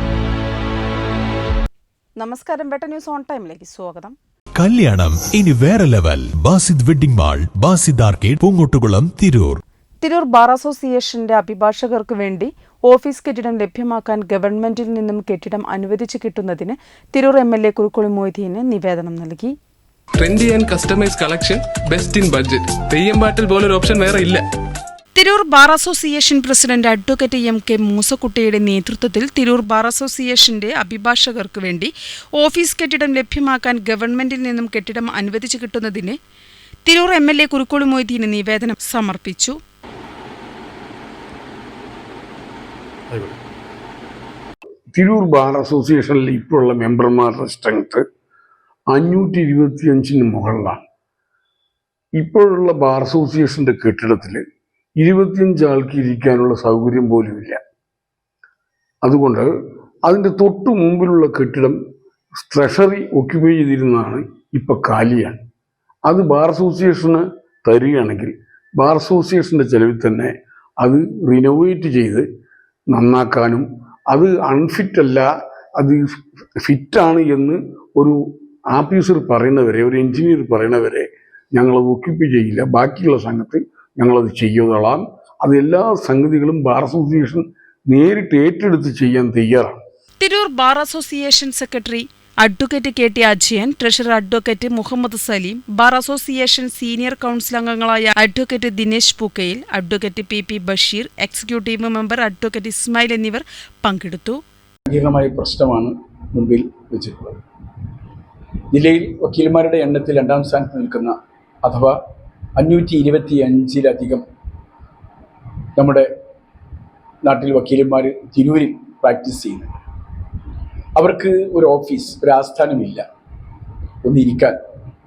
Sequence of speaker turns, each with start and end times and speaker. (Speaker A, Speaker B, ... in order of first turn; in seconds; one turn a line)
Speaker A: 2.2-4.1
Speaker B: 4.6-9.6
Speaker A: 10.0-19.5
Speaker C: 20.2-24.4
Speaker A: 25.1-36.1
Speaker A: 36.8-39.6
Speaker D: 44.9-48.0
Speaker D: 48.9-50.8
Speaker D: 52.1-54.4
Speaker D: 55.0-57.6
Speaker D: 59.0-59.5
Speaker D: 60.0-61.8
Speaker D: 62.4-65.4
Speaker D: 66.1-72.2
Speaker D: 72.9-78.2
Speaker D: 78.7-89.8
Speaker A: 90.2-104.4
Speaker E: 104.9-107.4
Speaker E: 108.7-112.0
Speaker E: 112.6-114.2
Speaker E: 115.8-116.1
Speaker E: 117.2-119.7
Speaker E: 121.0-123.0
Speaker E: 124.0-124.6